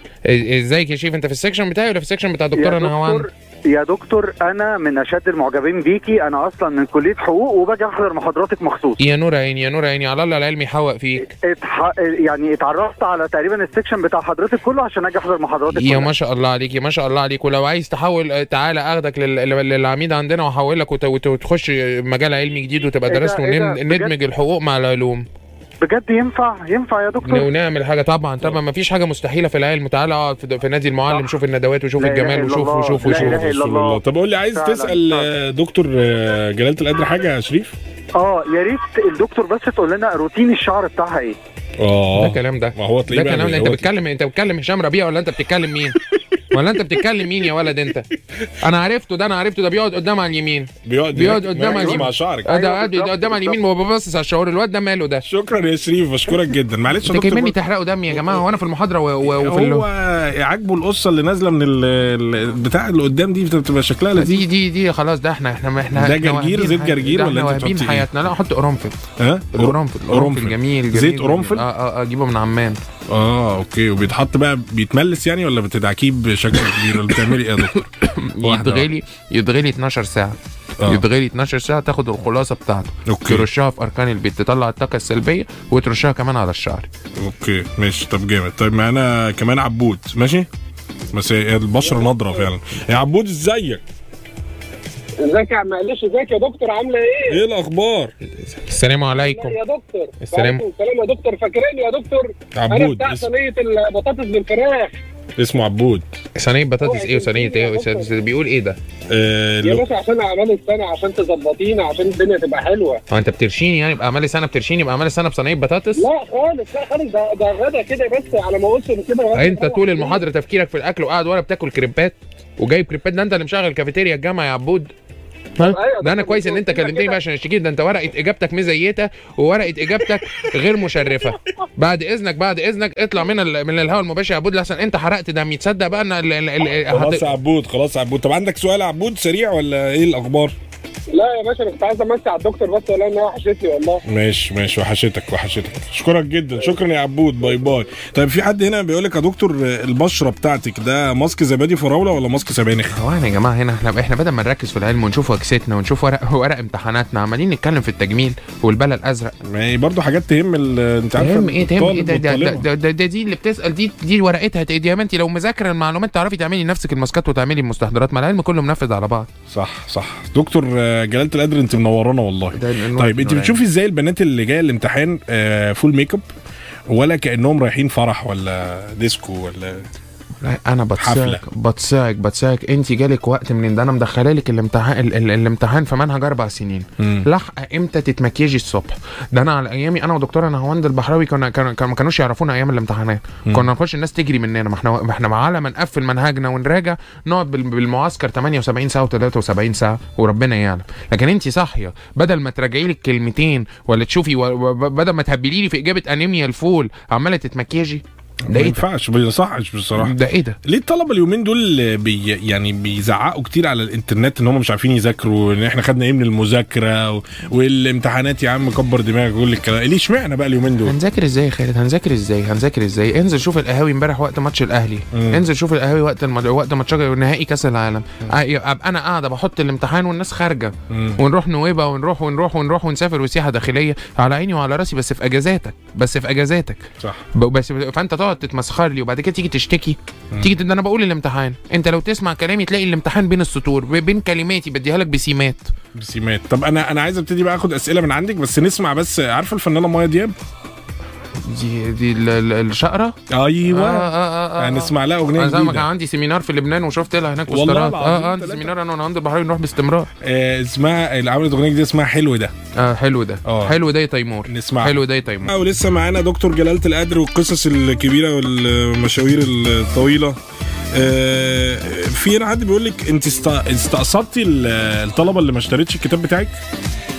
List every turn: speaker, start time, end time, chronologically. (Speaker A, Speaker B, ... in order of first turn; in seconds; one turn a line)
Speaker A: 0.2-3.3
Speaker B: 2.5-9.0
Speaker A: 9.0-11.3
Speaker B: 11.2-16.1
Speaker A: 15.7-25.3
Speaker B: 23.1-24.1
Speaker B: 25.8-27.5
Speaker A: 27.2-33.5
Speaker B: 32.0-34.0
Speaker C: 33.0-37.8
Speaker B: 34.5-35.3
Speaker B: 38.2-41.4
Speaker C: 41.8-43.9
Speaker A: 42.2-46.0
Speaker A: 46.5-48.1
Speaker A: 48.6-55.2
Speaker C: 50.9-53.6
Speaker C: 55.2-57.6
Speaker A: 57.0-59.9
Speaker C: 58.1-58.4
Speaker C: 59.2-64.4
Speaker A: 64.2-69.0
Speaker C: 65.9-68.1
Speaker C: 69.2-71.7
Speaker A: 69.5-72.8
Speaker C: 73.1-77.8
Speaker A: 77.1-86.9
Speaker C: 78.4-78.8
Speaker C: 83.1-83.5
Speaker C: 87.2-90.5
Speaker C: 91.1-93.8
Speaker B: 95.2-96.3
Speaker D: 95.5-97.4
Speaker C: 97.3-98.1
Speaker A: 98.4-99.6
Speaker B: 99.3-102.2
Speaker A: 100.2-100.6
Speaker D: 101.0-104.9
Speaker C: 102.5-103.3
Speaker B: 103.2-103.5
Speaker B: 104.1-104.9
Speaker C: 105.4-106.1
Speaker A: 106.3-108.8
Speaker B: 106.8-108.1
Speaker C: 109.1-109.8
Speaker D: 109.6-113.0
Speaker B: 109.7-110.1
Speaker A: 113.1-116.1
Speaker B: 116.0-116.9
Speaker D: 116.4-119.7
Speaker B: 118.9-120.2
Speaker A: 119.3-124.9
Speaker A: 125.6-137.3
Speaker B: 125.6-127.2
Speaker C: 136.9-140.6
Speaker D: 141.2-144.0
Speaker C: 144.1-153.0
Speaker A: 152.9-159.3
Speaker C: 159.4-162.7
Speaker A: 161.2-169.3
Speaker C: 169.5-176.2
Speaker A: 172.5-173.6
Speaker C: 176.9-179.9
Speaker A: 180.4-208.8
Speaker C: 181.0-181.4
Speaker C: 187.0-187.3
Speaker C: 208.4-221.0
Speaker A: 210.0-210.6
Speaker A: 220.8-245.7
Speaker C: 225.1-225.4
Speaker C: 230.9-231.2
Speaker C: 245.9-250.3
Speaker A: 251.4-253.2
Speaker C: 253.3-255.9
Speaker A: 253.7-260.1
Speaker C: 257.5-258.7
Speaker C: 260.2-262.5
Speaker A: 262.7-265.5
Speaker C: 263.4-263.7
Speaker C: 264.4-270.4
Speaker C: 270.9-276.6